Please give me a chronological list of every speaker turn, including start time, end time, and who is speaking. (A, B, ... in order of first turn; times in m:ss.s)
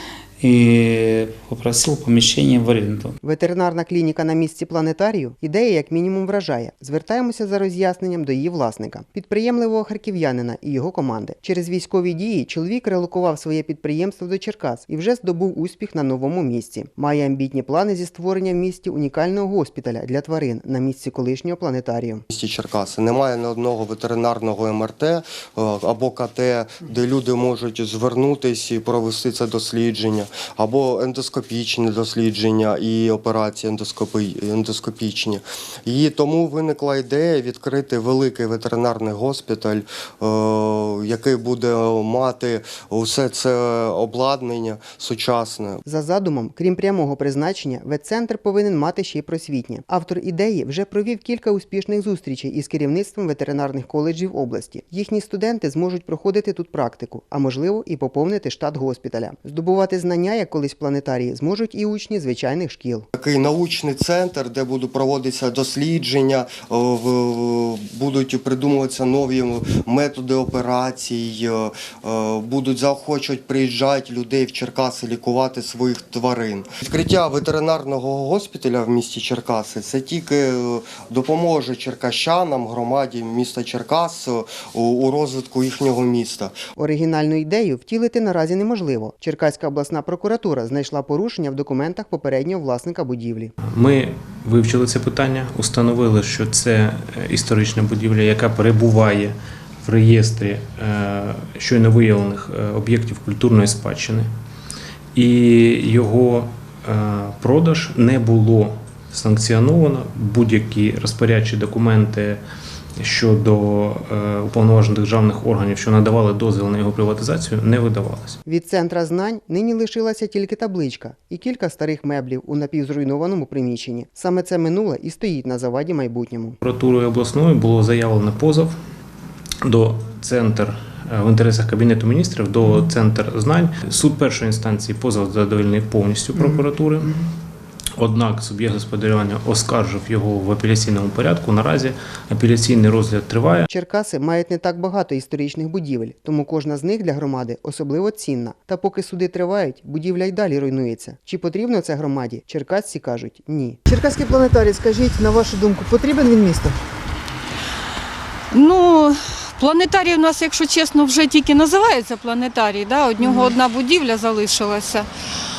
0:00.4-0:03.1 A
0:03.2-0:22.2 B
0:22.3-0:45.8 C
0:45.8-1:03.1 B
1:03.2-1:26.5 C
1:26.8-1:33.5 B
1:33.7-1:44.3 D
1:45.1-1:52.4 D
1:53.0-1:58.4 D
1:58.4-2:06.6 B
2:06.6-2:08.8 D
2:09.6-2:17.2 D
2:18.0-2:23.6 D
2:23.7-2:33.9 B
2:38.5-2:45.1 E